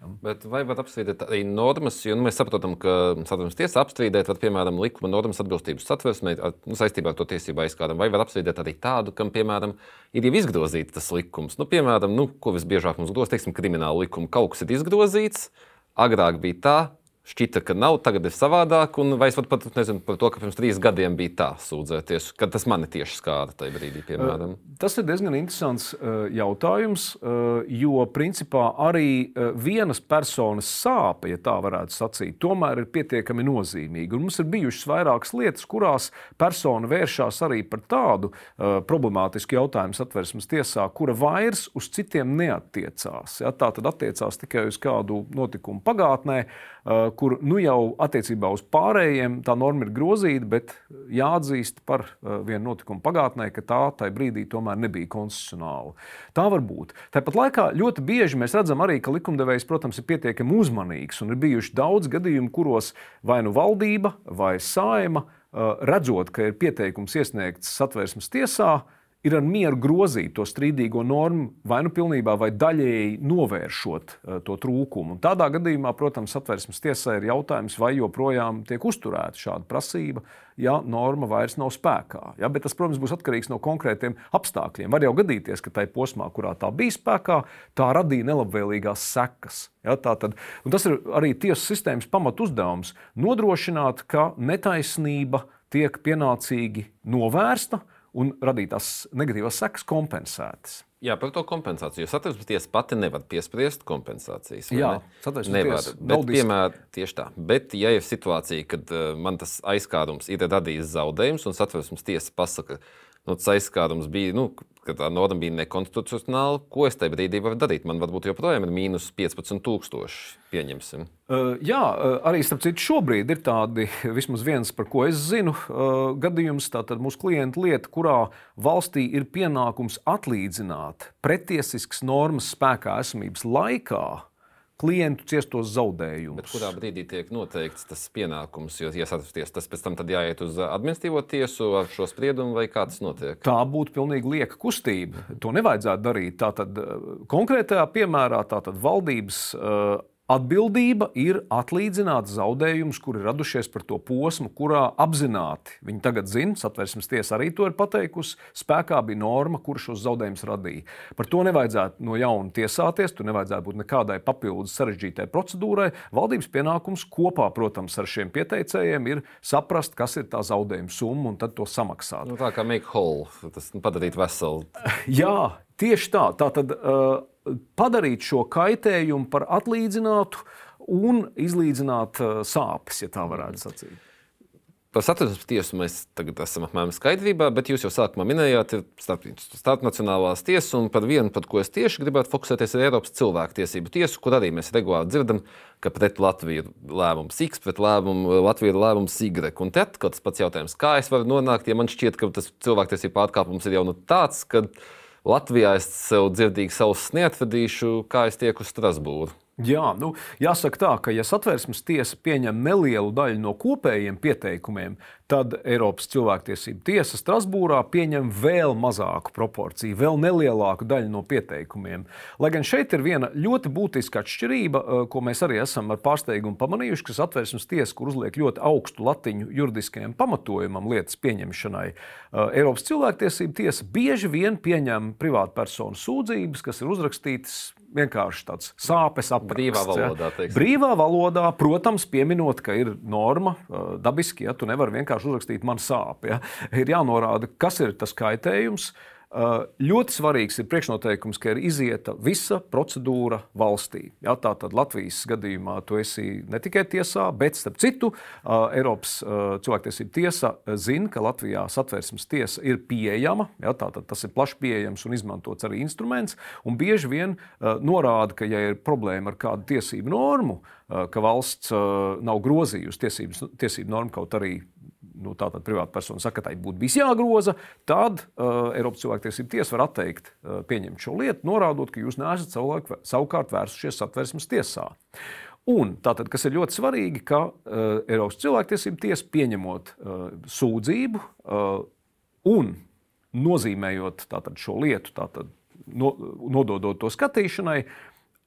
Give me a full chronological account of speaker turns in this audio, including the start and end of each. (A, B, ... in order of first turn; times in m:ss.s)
0:00.2-0:24.6 A
0:24.2-1:40.8 B
1:41.0-2:01.1 A
1:44.7-1:46.5 B
2:01.3-2:14.2 B
2:14.8-2:16.7 B
2:16.3-2:23.4 A
2:23.4-2:52.3 B
2:52.2-2:54.7 A
2:54.9-3:04.0 B
3:04.9-3:24.7 A
3:25.2-3:29.3 A
3:29.6-4:45.0 B
3:59.4-4:00.7 A
4:45.7-4:51.9 B
4:52.4-4:52.8 B
4:53.3-4:57.9 B